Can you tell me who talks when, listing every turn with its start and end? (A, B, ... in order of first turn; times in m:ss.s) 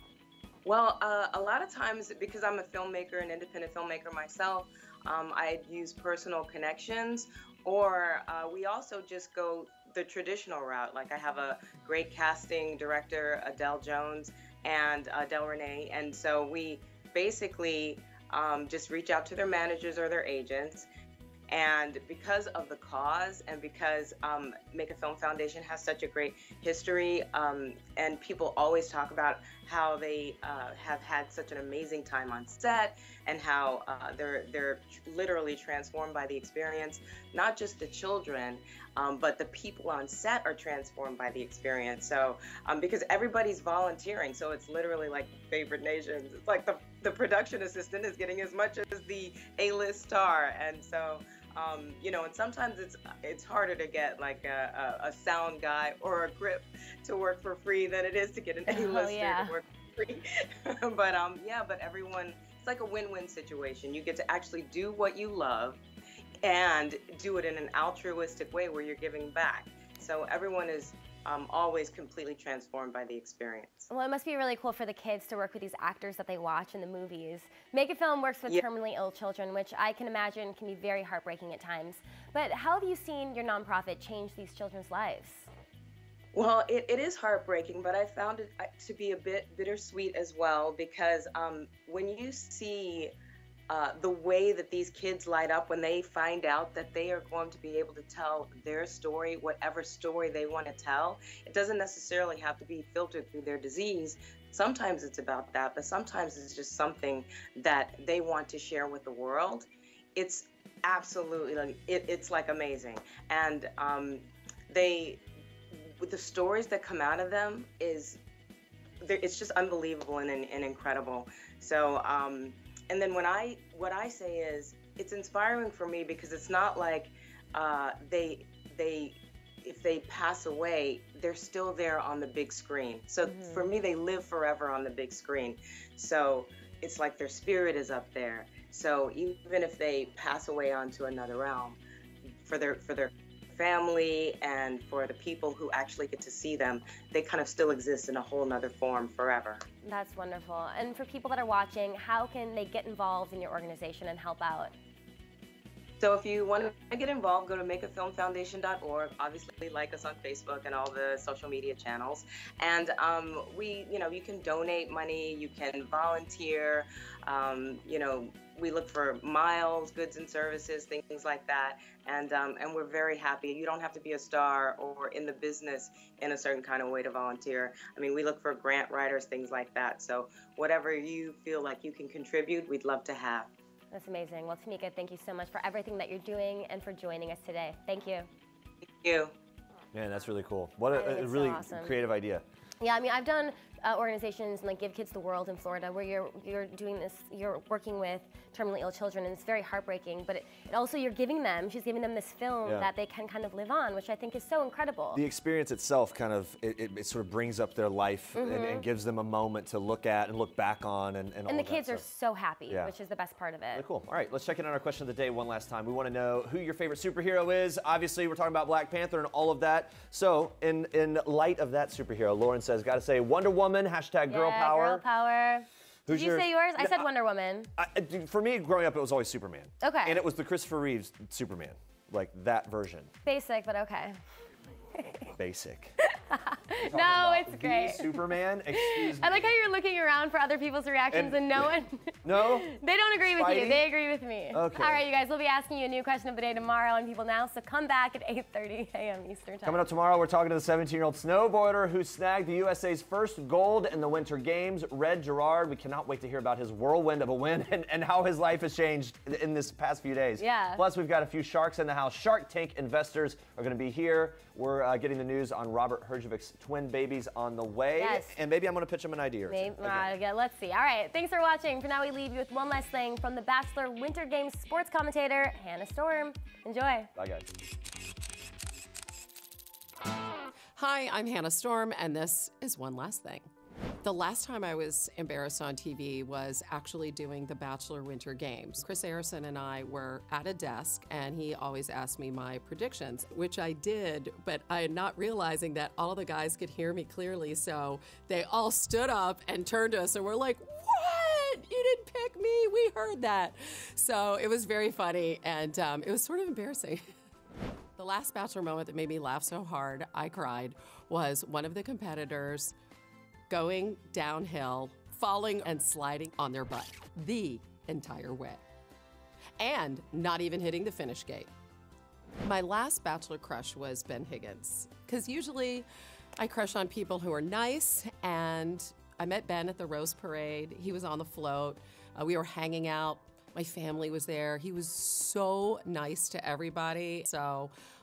0:00.6-0:20.9 A
0:21.5-1:05.8 A
0:58.7-0:59.5 B
1:06.4-1:13.9 A
1:13.9-1:25.5 B
1:26.4-1:33.1 A
1:33.7-1:55.2 A
1:56.0-1:58.2 A
1:59.0-2:21.8 A
2:22.4-2:29.6 A
2:29.8-2:34.7 B
2:36.0-3:03.5 A
3:03.9-3:08.3 B
3:09.0-3:09.3 A
3:09.9-3:12.4 C
3:10.9-3:12.0 B
3:12.8-3:25.2 B
3:25.1-3:32.0 C
3:28.4-3:28.8 B
3:31.5-3:33.8 B
3:33.7-3:45.0 C
3:44.3-3:47.7 B
3:46.1-3:47.1 C
3:47.8-3:53.1 C
3:49.8-3:50.2 B
3:53.2-3:54.2 B
3:55.0-3:55.3 B
3:55.4-3:56.0 C
3:56.0-4:09.8 B
3:56.8-3:59.5 C
4:01.1-4:02.7 C
4:03.4-4:03.8 C
4:04.5-4:05.0 C
4:09.6-4:30.1 C
4:20.4-4:20.8 B
4:28.0-4:28.4 B
4:29.5-4:37.1 B
4:37.2-4:37.5 C
4:40.8-4:43.5 D
4:44.0-5:07.0 D
5:08.0-5:12.7 D
5:13.5-5:18.6 D
5:19.6-5:21.5 D
5:22.4-5:25.9 D
5:26.4-5:37.7 D